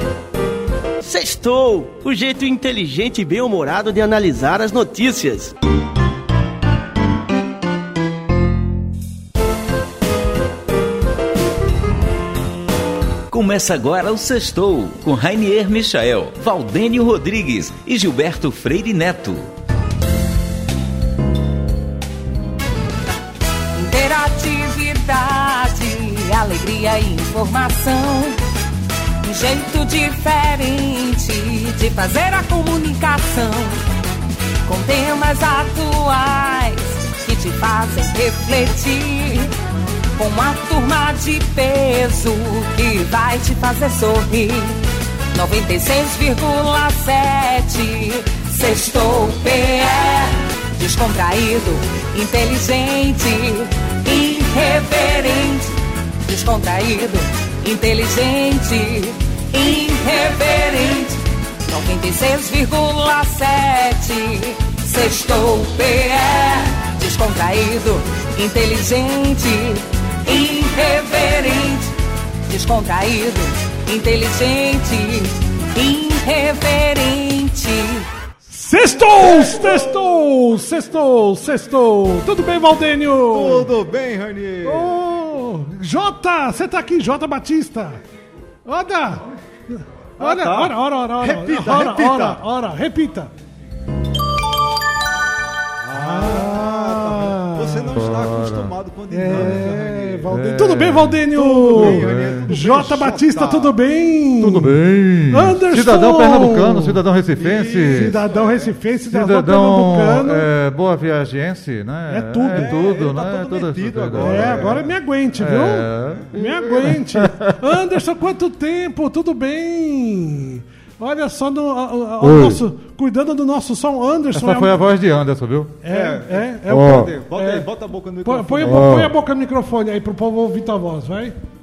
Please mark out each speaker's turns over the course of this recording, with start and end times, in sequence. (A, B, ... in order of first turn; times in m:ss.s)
0:01.0-0:05.5 A
0:13.3-0:19.5 B
0:23.8-0:28.4 C
0:29.2-0:33.8 C
0:34.7-0:39.5 C
0:40.2-0:44.8 C
0:45.3-0:55.7 C
0:56.2-1:11.9 C
1:12.5-1:18.1 C
1:18.5-1:23.7 D
1:19.1-1:20.2 E
1:23.3-1:25.0 E
1:24.6-1:28.0 D
1:28.6-1:33.3 D
1:30.2-1:32.4 E
1:35.8-1:40.3 E
1:35.9-1:38.0 D
1:37.9-1:38.7 F
1:39.1-1:44.7 D
1:39.3-1:39.7 F
1:40.3-1:41.2 F
1:41.3-1:43.7 E
1:41.7-1:42.5 F
1:44.4-1:48.1 F
1:45.3-1:47.0 D
1:47.4-1:48.8 E
1:47.9-1:50.5 D
1:49.1-1:54.8 F
1:52.1-1:52.8 D
1:52.5-1:54.9 E
1:54.2-2:04.8 D
1:55.4-1:56.3 F
1:56.1-1:56.9 E
1:56.8-1:57.5 F
2:02.2-2:02.6 F
2:04.3-2:05.8 F
2:05.8-2:07.7 D
2:05.9-2:09.1 E
2:06.7-2:07.1 F
2:08.2-2:11.4 D
2:08.6-2:09.1 F